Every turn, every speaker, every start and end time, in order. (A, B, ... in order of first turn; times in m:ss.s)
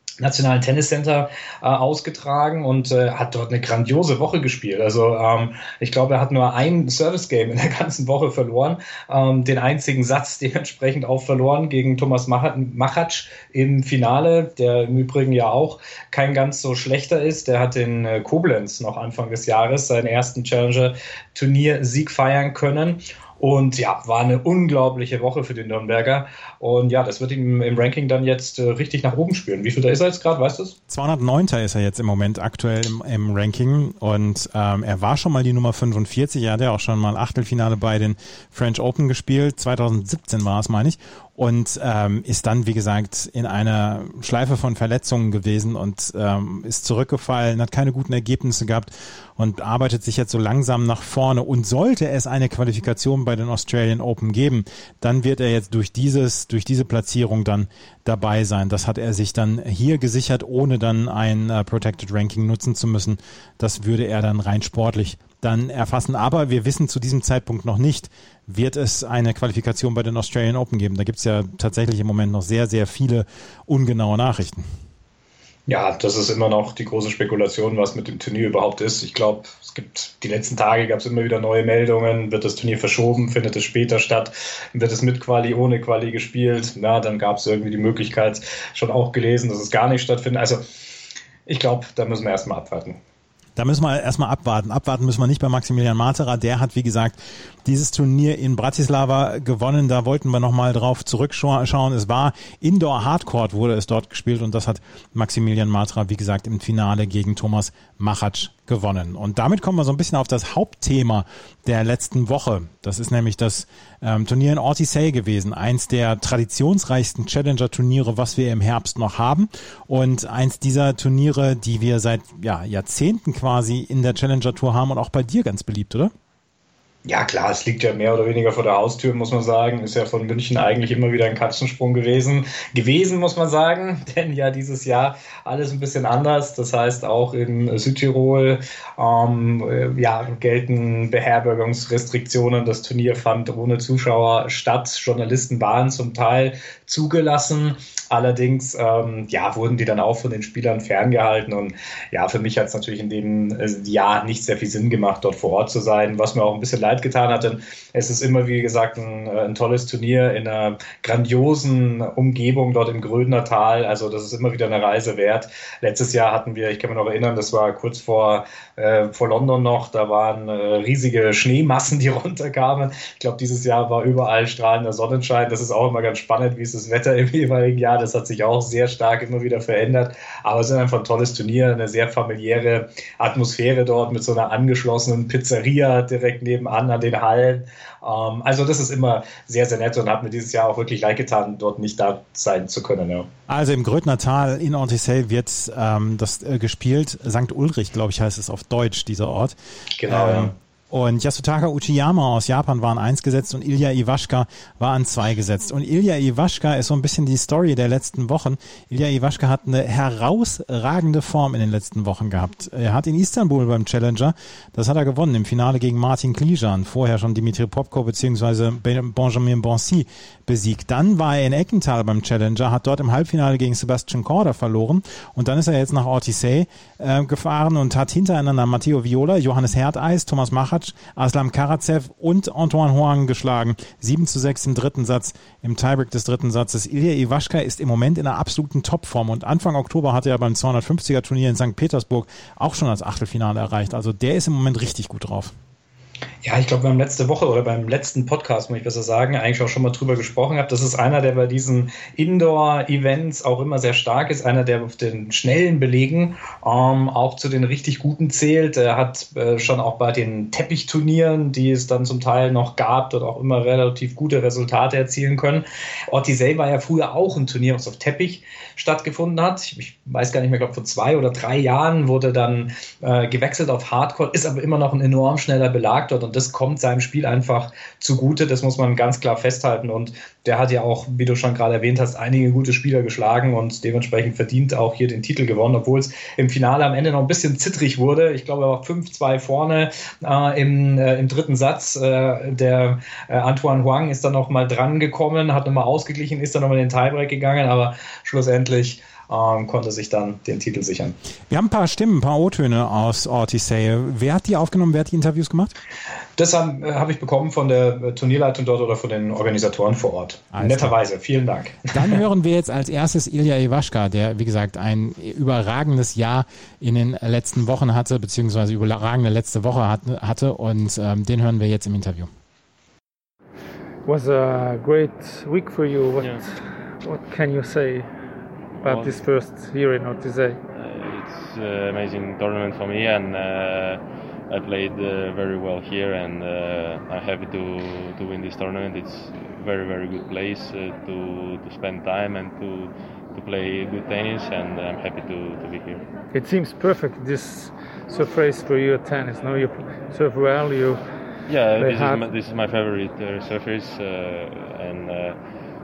0:00.2-0:30.7 A
0:30.9-1:14.6 B
1:15.7-1:30.6 A
1:31.5-1:33.0 A
1:33.6-2:06.1 B
2:07.0-3:13.3 A
3:13.5-3:19.6 B
3:20.0-3:20.5 A
3:20.1-4:05.5 B
4:06.4-5:01.2 A
5:01.5-5:05.7 B
5:06.4-5:12.1 A
5:10.5-5:10.9 B
5:11.9-5:22.3 B
5:24.0-5:28.1 C
5:26.2-5:26.4 D
5:28.8-5:29.2 D
5:28.8-5:30.6 C
5:30.7-5:46.0 D
5:46.3-5:51.0 C
5:51.5-5:55.4 D
5:51.8-5:52.2 C